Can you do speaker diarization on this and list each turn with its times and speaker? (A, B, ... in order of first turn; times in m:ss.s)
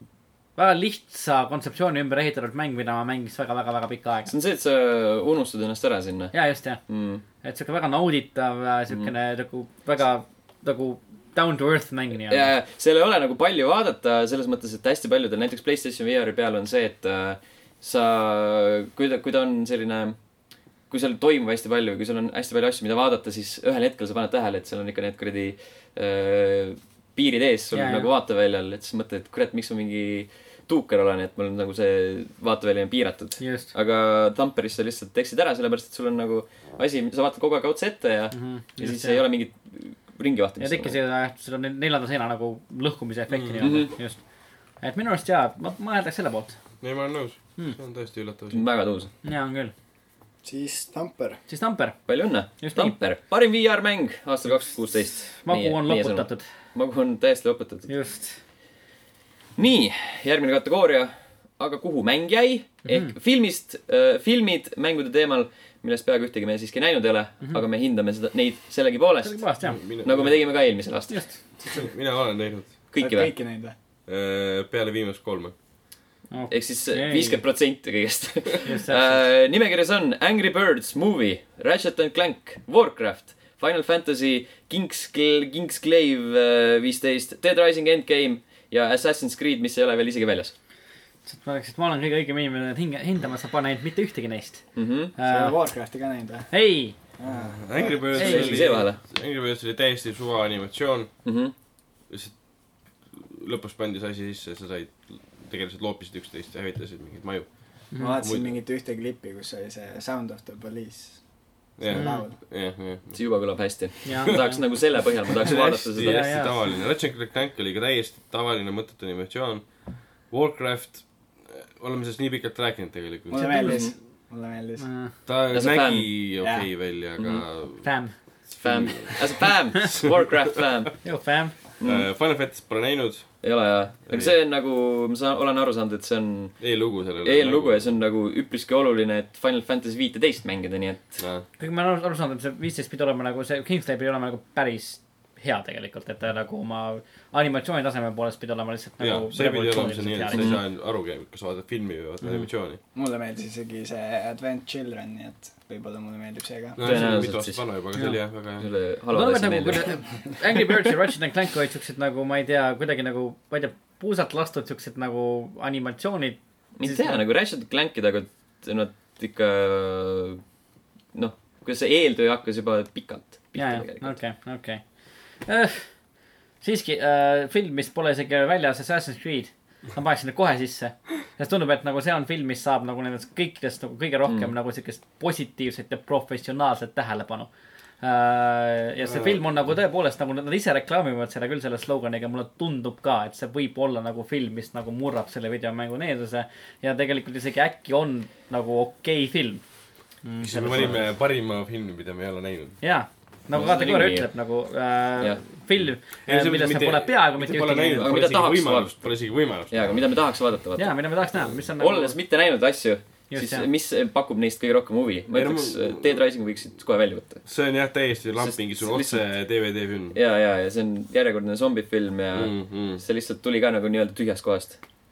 0:00.6-0:04.3 A
0:04.3-0:06.3 B
0:06.3-0:06.8 A
0:06.9-0:07.2 B
0:07.4-0:12.5 A
0:12.3-0:20.2 B
0:20.9-0:41.0 B
0:27.7-0:28.1 A
0:33.4-0:33.7 A
0:38.3-0:39.2 A
0:40.6-0:44.2 A
0:43.3-0:43.8 C
0:43.6-0:43.9 B
0:44.8-0:46.6 A
0:46.8-0:48.6 C
0:48.5-0:49.1 B
0:49.2-0:49.7 A
0:50.4-0:51.4 D
0:51.5-0:52.0 A
0:52.1-0:57.9 B
0:52.6-0:52.9 A
0:55.3-0:56.4 A
0:57.9-0:58.4 A
0:59.6-1:09.4 B
1:02.9-1:03.1 A
1:09.2-1:09.8 A
1:09.6-1:10.4 C
1:10.0-1:11.4 B
1:11.1-1:11.4 A
1:11.7-1:12.8 C
1:12.9-1:13.3 B
1:13.0-1:13.7 D
1:14.1-1:15.5 C
1:16.3-1:17.4 A
1:16.5-1:30.5 B
1:18.6-1:19.2 A
1:31.2-1:35.5 A
1:34.8-1:35.1 B
1:35.2-1:36.5 D
1:36.5-1:36.9 A
1:37.2-1:38.3 D
1:37.3-1:41.2 C
1:38.1-1:39.0 B
1:38.2-1:38.6 A
1:41.2-1:41.5 B
1:42.1-1:42.5 C
1:43.0-1:48.5 C
1:47.9-1:48.2 A
1:48.0-1:51.2 D
1:51.8-1:53.2 C
1:51.8-1:52.4 D
1:51.9-1:52.2 A
1:53.1-1:56.4 B
1:54.0-1:54.6 A
1:55.4-2:03.6 C
1:56.0-1:56.6 A
2:03.3-2:04.8 D
2:03.3-2:03.8 A
2:03.6-2:03.9 B
2:04.8-2:05.1 A
2:05.2-2:07.9 C
2:05.5-2:06.1 B
2:06.4-2:06.7 D
2:07.2-2:07.4 B
2:07.8-2:08.2 A
2:08.5-2:10.3 C
2:08.6-2:11.0 B
2:11.0-2:11.5 A
2:11.8-2:12.0 B
2:11.8-2:13.4 C
2:13.4-2:16.6 B
2:16.6-2:17.9 C
2:17.2-2:21.2 B
2:21.2-2:21.4 C
2:21.6-2:30.6 A
2:29.0-2:32.8 C
2:30.3-2:30.6 B
2:32.9-2:37.0 D
2:36.8-2:38.7 C
2:36.8-2:37.6 B
2:38.6-2:39.9 B
2:39.1-2:47.2 A
2:46.8-2:50.4 B
2:51.1-2:54.2 B
2:53.5-2:54.8 A
2:55.4-2:55.9 A
2:56.6-3:07.5 A
3:08.0-3:19.6 A
3:09.0-3:09.4 C
3:20.2-3:21.0 A
3:20.4-3:22.8 C
3:22.8-3:28.2 A
3:23.5-3:24.3 B
3:26.2-3:29.9 C
3:28.0-3:28.9 B
3:29.7-3:31.0 B
3:30.8-3:32.2 A
3:31.8-3:37.4 B
3:33.3-3:33.6 A
3:35.3-3:36.2 C
3:37.4-3:40.2 C
3:38.4-3:39.2 B
3:40.1-3:44.8 B
3:42.3-3:43.0 C